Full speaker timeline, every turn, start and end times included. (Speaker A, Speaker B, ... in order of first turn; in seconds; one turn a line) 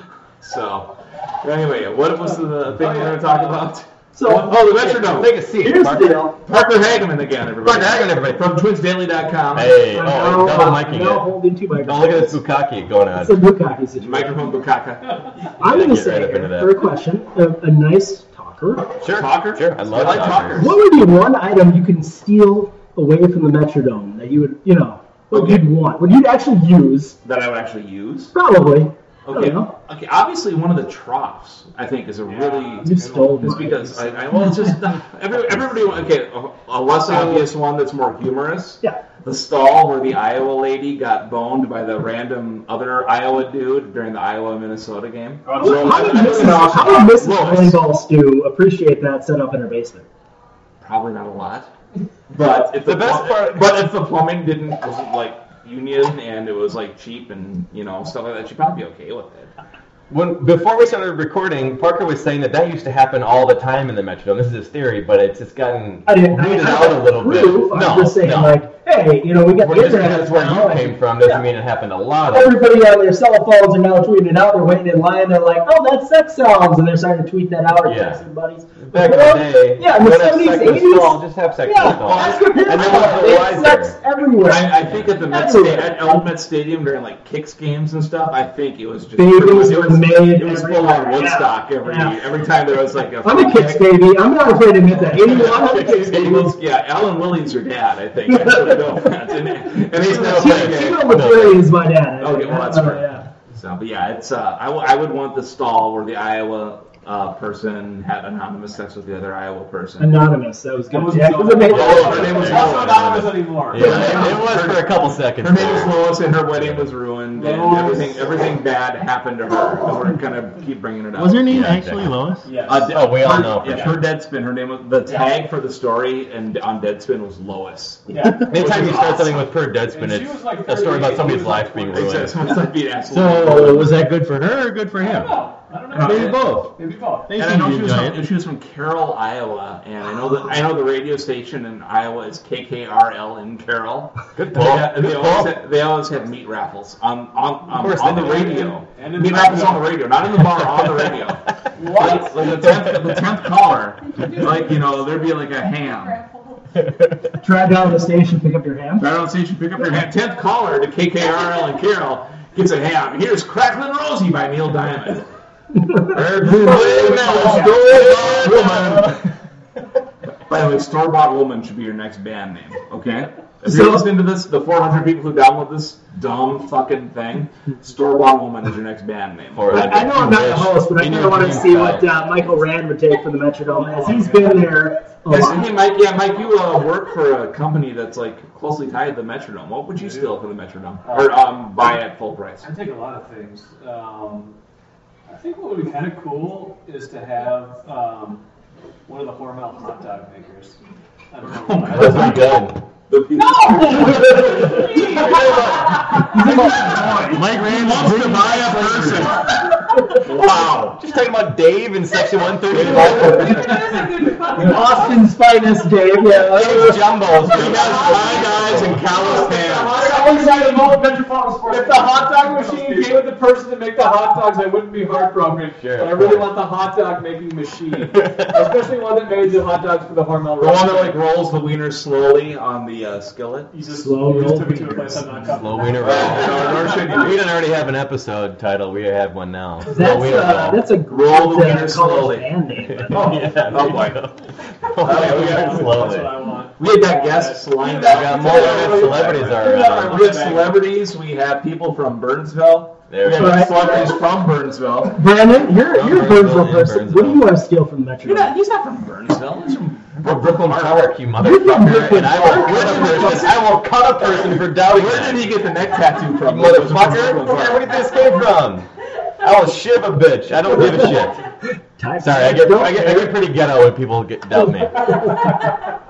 Speaker A: 0.4-5.3
Speaker B: 2.2-3.7
Speaker C: 4.1-6.4
Speaker D: 5.0-6.3
Speaker A: 6.5-9.8
Speaker D: 7.6-8.4
Speaker D: 9.5-13.4
Speaker C: 9.8-12.4
Speaker C: 13.1-14.5
Speaker A: 14.0-15.2
Speaker C: 15.6-18.9
Speaker D: 15.6-16.9
Speaker D: 19.0-20.7
Speaker A: 19.1-20.8
Speaker C: 20.6-27.2
Speaker A: 25.3-25.7
Speaker A: 27.2-28.3
Speaker C: 28.3-29.7
Speaker A: 29.3-47.8
Speaker B: 32.2-34.5
Speaker C: 32.8-34.5
Speaker C: 37.1-37.5
Speaker C: 45.5-50.1
Speaker A: 50.8-51.7
Speaker A: 52.3-59.5
Speaker D: 52.8-53.7
Speaker D: 60.1-68.6
Speaker C: 66.1-71.5
Speaker D: 69.6-72.6
Speaker C: 72.3-86.2
Speaker D: 77.8-78.2
Speaker D: 78.8-84.0
Speaker A: 81.8-83.3
Speaker A: 84.4-93.9
Speaker C: 89.2-92.2
Speaker C: 93.2-96.6
Speaker A: 94.9-101.2
Speaker D: 95.3-96.2
Speaker C: 98.3-98.8
Speaker C: 100.0-103.2
Speaker D: 100.0-101.7
Speaker A: 102.2-110.3
Speaker C: 110.0-112.7
Speaker B: 110.9-114.5
Speaker D: 111.7-116.9
Speaker A: 111.8-113.1
Speaker A: 113.7-121.6
Speaker B: 117.3-118.3
Speaker E: 121.2-122.5
Speaker D: 121.5-122.1
Speaker B: 122.4-123.6
Speaker A: 122.7-129.5
Speaker D: 122.9-124.0
Speaker B: 128.1-129.2
Speaker D: 128.5-132.4
Speaker B: 129.9-132.3
Speaker A: 131.9-133.9
Speaker E: 133.1-135.4
Speaker B: 135.0-137.3
Speaker E: 135.9-136.7
Speaker D: 136.1-136.6
Speaker E: 137.3-138.2
Speaker A: 137.4-156.2
Speaker D: 144.4-145.5
Speaker D: 147.8-148.5
Speaker B: 148.2-150.0
Speaker B: 151.8-152.6
Speaker C: 157.4-159.1
Speaker A: 159.0-165.3
Speaker C: 165.8-167.8
Speaker D: 166.2-169.2
Speaker A: 166.5-169.2
Speaker B: 166.8-168.7
Speaker A: 170.5-180.0
Speaker C: 173.7-174.1
Speaker D: 179.6-182.1
Speaker C: 179.7-185.8
Speaker B: 183.7-184.8
Speaker A: 185.3-192.7
Speaker B: 189.9-190.4
Speaker B: 191.0-192.0
Speaker B: 192.6-194.6
Speaker B: 195.3-198.4
Speaker B: 199.1-200.8
Speaker B: 201.3-202.7
Speaker A: 201.4-205.5
Speaker D: 201.9-202.8
Speaker B: 203.9-207.9
Speaker D: 205.1-206.0
Speaker C: 206.2-207.5
Speaker E: 206.6-209.4
Speaker A: 207.6-209.5
Speaker A: 210.3-210.6
Speaker E: 210.4-210.7
Speaker D: 210.9-213.7
Speaker B: 212.7-215.3
Speaker A: 212.8-213.1
Speaker C: 214.5-217.2
Speaker D: 216.4-219.0
Speaker B: 217.4-231.2
Speaker A: 217.5-220.0
Speaker C: 220.0-223.2
Speaker D: 225.8-226.5
Speaker D: 228.1-228.7
Speaker A: 230.6-233.7
Speaker B: 233.7-237.4
Speaker C: 233.8-235.8
Speaker D: 235.5-240.9
Speaker A: 236.0-237.4
Speaker C: 239.9-243.5
Speaker A: 241.1-242.5
Speaker D: 242.9-246.4
Speaker B: 243.2-244.1
Speaker A: 243.7-244.3
Speaker B: 245.0-250.9
Speaker A: 245.0-246.1
Speaker A: 246.8-255.2
Speaker D: 248.0-250.4
Speaker D: 253.1-253.9
Speaker C: 253.3-254.2
Speaker C: 255.1-258.5
Speaker D: 255.8-257.4
Speaker A: 258.2-261.1
Speaker D: 260.2-265.6
Speaker C: 261.4-263.5
Speaker A: 262.4-268.0
Speaker D: 266.4-268.9
Speaker D: 269.4-271.4
Speaker C: 270.7-271.2
Speaker C: 272.0-273.5
Speaker D: 272.2-275.3
Speaker C: 274.5-275.6